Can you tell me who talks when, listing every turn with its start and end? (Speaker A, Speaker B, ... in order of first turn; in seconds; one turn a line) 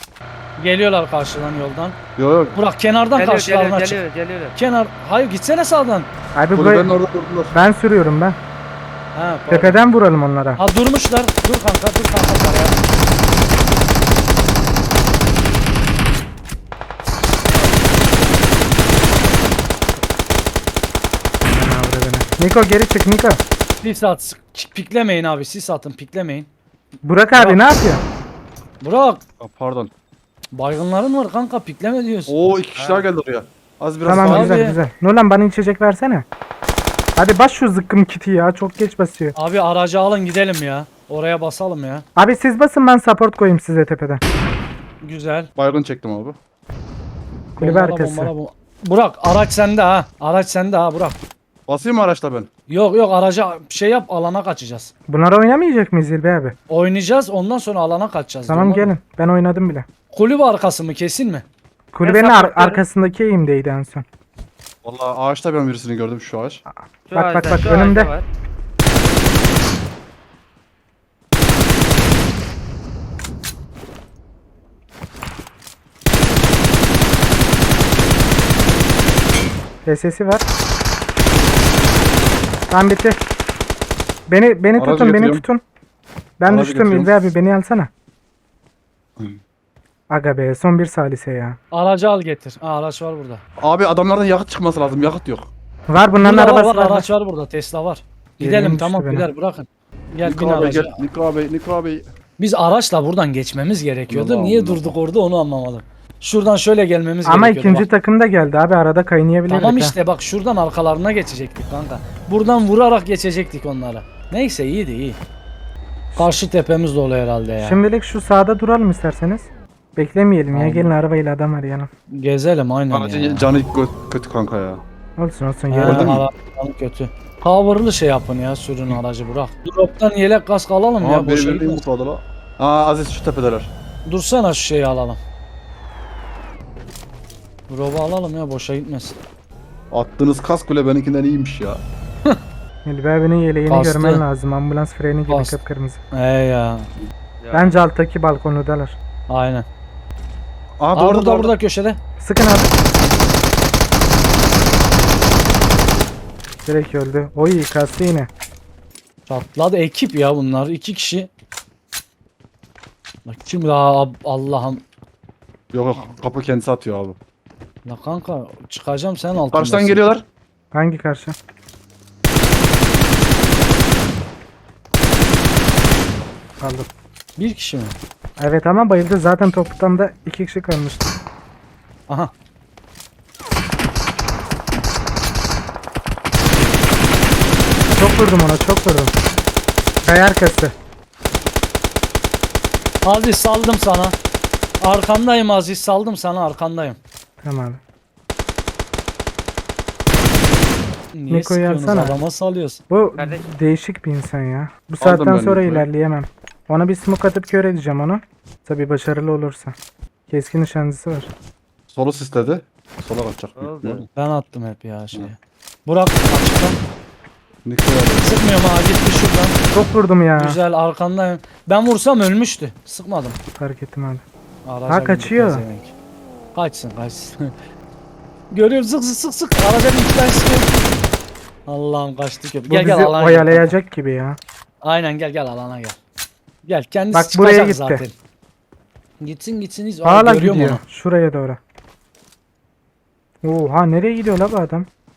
Speaker A: 0.6-2.0
Speaker B: 2.2-2.6
Speaker A: 2.5-4.0
Speaker C: 3.1-4.5
Speaker A: 4.5-6.1
Speaker D: 6.3-6.9
Speaker B: 6.5-7.5
Speaker D: 7.5-8.4
Speaker A: 9.1-9.8
Speaker D: 9.5-10.6
Speaker A: 10.6-12.8
Speaker D: 21.5-23.4
Speaker A: 23.8-26.5
Speaker D: 27.0-28.0
Speaker A: 27.3-27.6
Speaker A: 28.8-29.2
Speaker B: 29.4-29.9
Speaker A: 30.5-32.4
Speaker B: 32.3-34.5
Speaker C: 32.8-33.1
Speaker D: 34.0-36.3
Speaker A: 34.1-34.8
Speaker D: 37.1-39.3
Speaker A: 39.3-42.0
Speaker D: 42.1-44.2
Speaker A: 45.0-45.5
Speaker B: 45.5-46.4
Speaker D: 47.5-48.3
Speaker A: 47.6-51.2
Speaker B: 51.7-52.5
Speaker A: 52.7-54.9
Speaker D: 55.1-56.5
Speaker A: 56.7-58.9
Speaker D: 58.5-59.9
Speaker A: 60.1-61.5
Speaker D: 61.9-64.0
Speaker C: 62.0-62.8
Speaker B: 64.8-66.6
Speaker D: 66.7-68.1
Speaker C: 67.1-68.2
Speaker D: 79.8-80.4
Speaker D: 82.7-83.2
Speaker D: 84.3-85.6
Speaker B: 84.8-85.4
Speaker D: 86.4-87.9
Speaker B: 86.5-87.2
Speaker D: 90.1-91.6
Speaker A: 91.7-93.4
Speaker B: 93.6-95.5
Speaker D: 95.9-97.1
Speaker A: 96.2-101.0
Speaker D: 98.4-99.3
Speaker B: 100.2-102.0
Speaker A: 102.4-107.9
Speaker B: 104.1-104.9
Speaker D: 107.2-110.0
Speaker A: 109.5-115.2
Speaker A: 116.2-117.8
Speaker D: 117.6-121.9
Speaker A: 120.5-120.9
Speaker A: 122.1-123.5
Speaker B: 122.9-124.8
Speaker D: 125.2-126.2
Speaker A: 125.7-131.8
Speaker B: 125.8-126.2
Speaker B: 131.0-133.7
Speaker A: 134.1-135.2
Speaker A: 137.7-139.2
Speaker B: 139.9-141.8
Speaker D: 142.8-146.0
Speaker A: 143.7-144.2
Speaker A: 145.3-145.6
Speaker A: 146.1-146.9
Speaker C: 147.4-147.8
Speaker D: 147.5-149.0
Speaker A: 149.3-149.7
Speaker B: 150.8-151.6
Speaker A: 150.9-152.0
Speaker D: 152.2-152.8
Speaker D: 156.6-158.3
Speaker A: 159.2-161.3
Speaker A: 163.2-164.8
Speaker B: 165.7-167.2
Speaker A: 167.8-170.1
Speaker B: 169.5-170.2
Speaker D: 170.7-171.3
Speaker D: 176.6-176.9
Speaker A: 177.4-177.9
Speaker D: 178.4-181.1
Speaker D: 187.9-189.1
Speaker D: 190.0-190.7
Speaker A: 193.0-194.2
Speaker A: 194.8-197.0
Speaker D: 197.4-197.8
Speaker A: 201.1-202.8
Speaker D: 201.3-202.2
Speaker D: 202.9-209.8
Speaker C: 203.2-203.4
Speaker B: 205.0-205.9
Speaker D: 210.3-211.3
Speaker B: 211.9-214.1
Speaker C: 213.6-214.1
Speaker A: 214.1-216.8
Speaker B: 217.6-218.4
Speaker A: 218.2-219.6
Speaker D: 219.7-220.6
Speaker A: 220.4-223.4
Speaker D: 223.6-224.2
Speaker A: 224.6-225.9
Speaker D: 224.9-225.6
Speaker A: 226.5-227.5
Speaker A: 228.5-230.8
Speaker A: 231.7-233.7
Speaker D: 232.7-234.4
Speaker A: 234.8-236.0
Speaker A: 236.6-238.1
Speaker D: 237.1-238.0
Speaker A: 239.2-240.8
Speaker D: 240.0-241.6
Speaker D: 243.4-244.9